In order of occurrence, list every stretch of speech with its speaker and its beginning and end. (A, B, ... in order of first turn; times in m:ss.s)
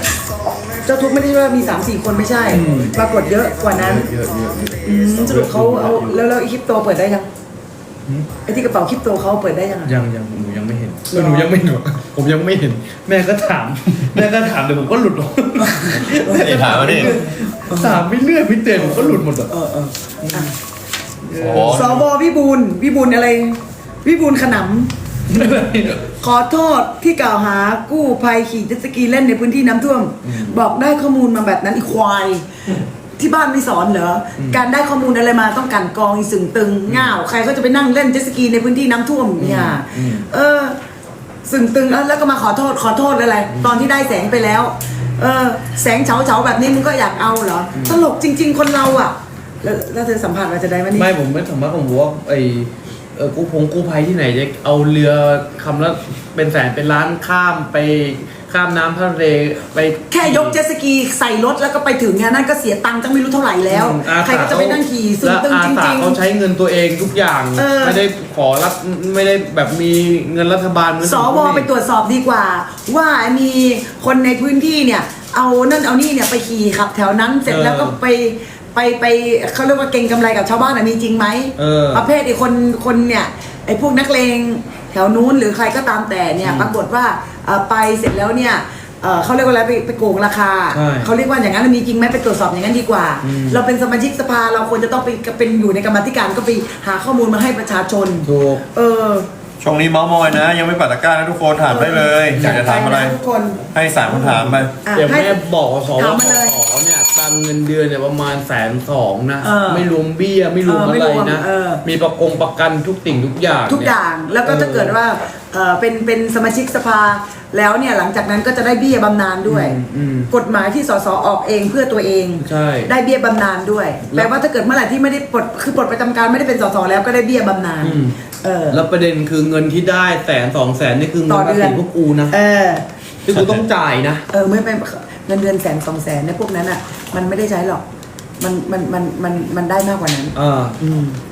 0:00.8-0:04.1 A
0:02.5-0:03.0 B
0:03.7-0:06.2 B
0:04.8-0:07.3 A
0:08.4-0:09.9 A
0:09.8-0:19.5 B
0:11.1-0:11.5 A
0:15.8-0:18.0 A
0:16.2-0:17.2 C
0:18.7-0:20.5 A
0:20.2-0:20.5 B
0:21.2-0:22.0 B
0:21.4-0:22.0 C
0:21.6-0:24.9 A
0:25.3-0:26.0 B
0:26.2-0:32.4 A
0:30.2-0:30.6 B
0:33.2-0:40.8 A
0:34.4-0:34.6 B
0:36.9-0:37.2 B
0:39.4-0:40.2 B
0:41.4-0:51.1 A
0:43.5-0:43.8 B
0:47.7-0:48.0 B
0:50.9-1:00.6 B
1:00.1-1:06.2 A
1:03.7-1:11.7 B
1:07.5-1:08.0 A
1:11.0-1:39.3 A
1:17.4-1:17.9 B
1:21.6-1:22.1 B
1:26.4-1:26.7 B
1:30.7-1:31.1 B
1:33.2-1:33.6 B
1:38.2-1:38.6 B
1:39.6-1:43.2 C
1:41.6-1:45.4 A
1:42.4-1:42.8 B
1:43.7-1:44.7 C
1:44.5-1:55.0 B
1:45.9-1:46.6 A
1:49.4-1:49.9 A
1:50.6-1:51.8 A
1:53.7-1:59.8 A
1:59.4-2:00.3 B
2:00.3-2:08.8 A
2:02.4-2:02.9 B
2:07.8-2:08.1 B
2:08.7-2:12.3 B
2:11.3-2:12.8 A
2:13.2-2:14.2 B
2:14.3-2:17.8 A
2:18.4-2:20.3 A
2:20.4-2:21.1 B